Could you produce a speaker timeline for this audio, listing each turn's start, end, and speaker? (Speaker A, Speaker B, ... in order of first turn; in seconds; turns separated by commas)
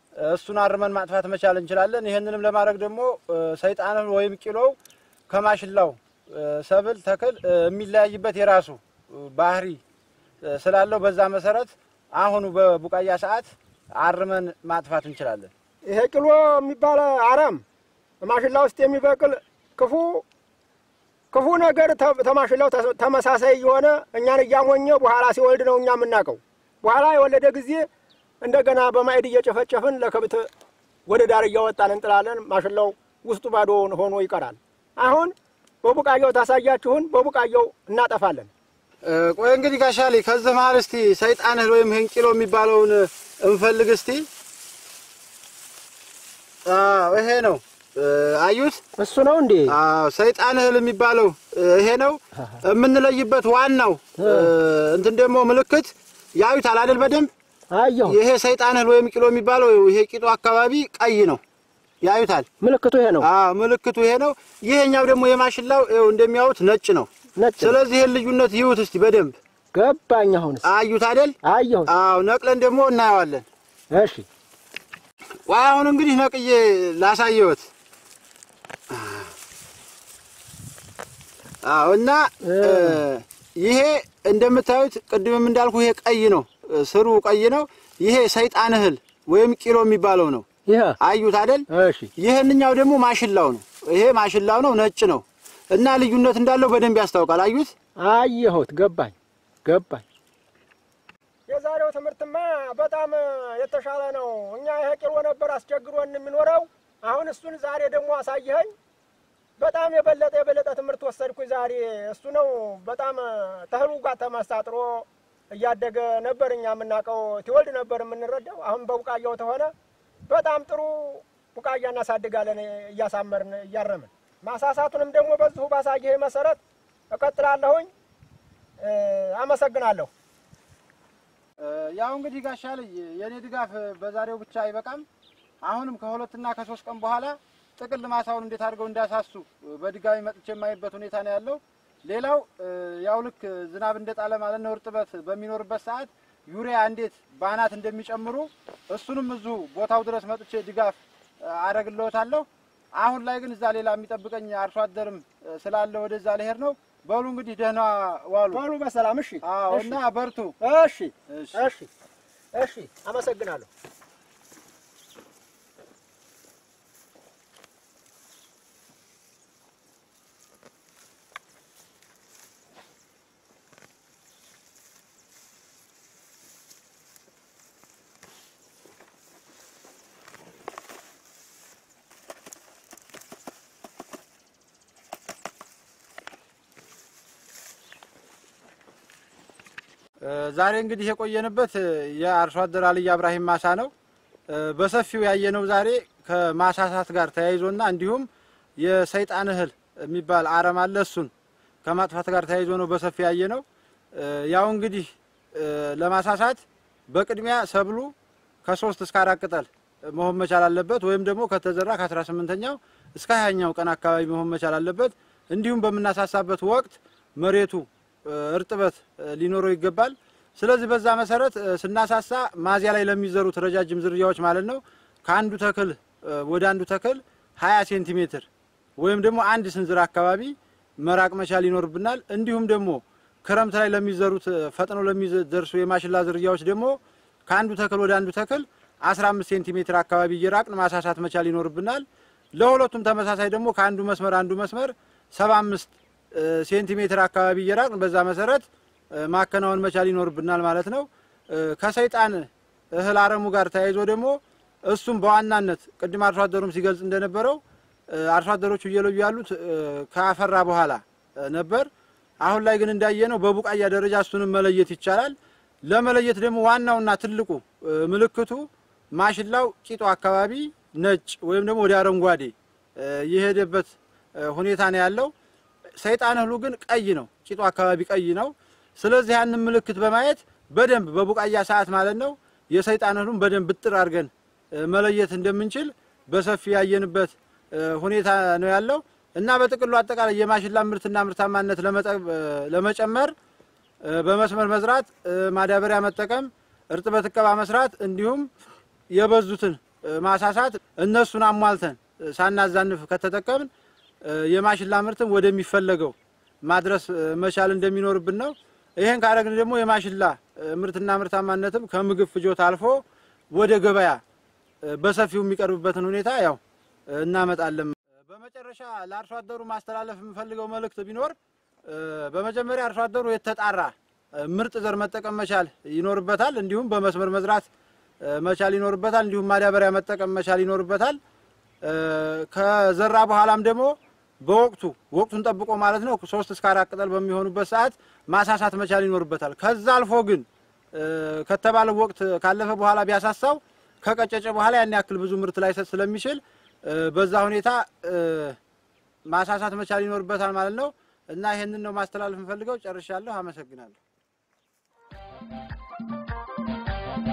Speaker A: 0.1-4.8, Speaker A: 5.3-9.8, Speaker A: 10.4-15.5, Speaker B: 15.8-17.6, Speaker B: 18.2-20.2, Speaker B: 21.3-27.9, Speaker B: 28.4-30.5, Speaker B: 31.1-38.5, Speaker A: 39.0-44.3, Speaker A: 46.6-48.8, Speaker B: 49.0-49.8, Speaker A: 49.7-57.3, Speaker B: 54.2-54.5, Speaker B: 57.7-58.2, Speaker A: 58.0-61.4, Speaker A: 62.0-62.5, Speaker B: 62.6-63.3, Speaker A: 63.2-69.4, Speaker B: 67.4-67.8, Speaker B: 69.7-70.7, Speaker A: 70.6-73.5, Speaker B: 71.4-71.9, Speaker B: 73.9-74.2, Speaker A: 75.5-77.7, Speaker A: 78.9-79.3, Speaker A: 81.6-90.5, Speaker B: 82.4-83.0, Speaker B: 90.7-91.0, Speaker A: 91.0-91.7, Speaker B: 91.7-92.1, Speaker A: 92.2-97.7, Speaker B: 98.0-100.0, Speaker B: 101.5-108.7, Speaker B: 109.6-119.7, Speaker B: 120.3-126.6, Speaker B: 127.1-127.9, Speaker B: 128.8-130.1, Speaker A: 131.6-135.1, Speaker A: 135.6-158.6, Speaker B: 158.5-160.0, Speaker A: 159.4-160.6, Speaker B: 160.6-161.9, Speaker A: 161.3-161.7, Speaker B: 162.5-163.7, Speaker A: 190.2-193.9, Speaker A: 194.5-198.3, Speaker A: 198.8-201.3, Speaker A: 201.8-208.1, Speaker A: 208.6-261.9, Speaker A: 262.4-275.3, Speaker A: 276.0-293.3, Speaker A: 294.0-298.5, Speaker A: 299.1-303.7, Speaker A: 304.2-314.2, Speaker A: 314.8-327.7, Speaker A: 328.2-331.2, Speaker A: 331.8-348.6, Speaker A: 349.2-354.0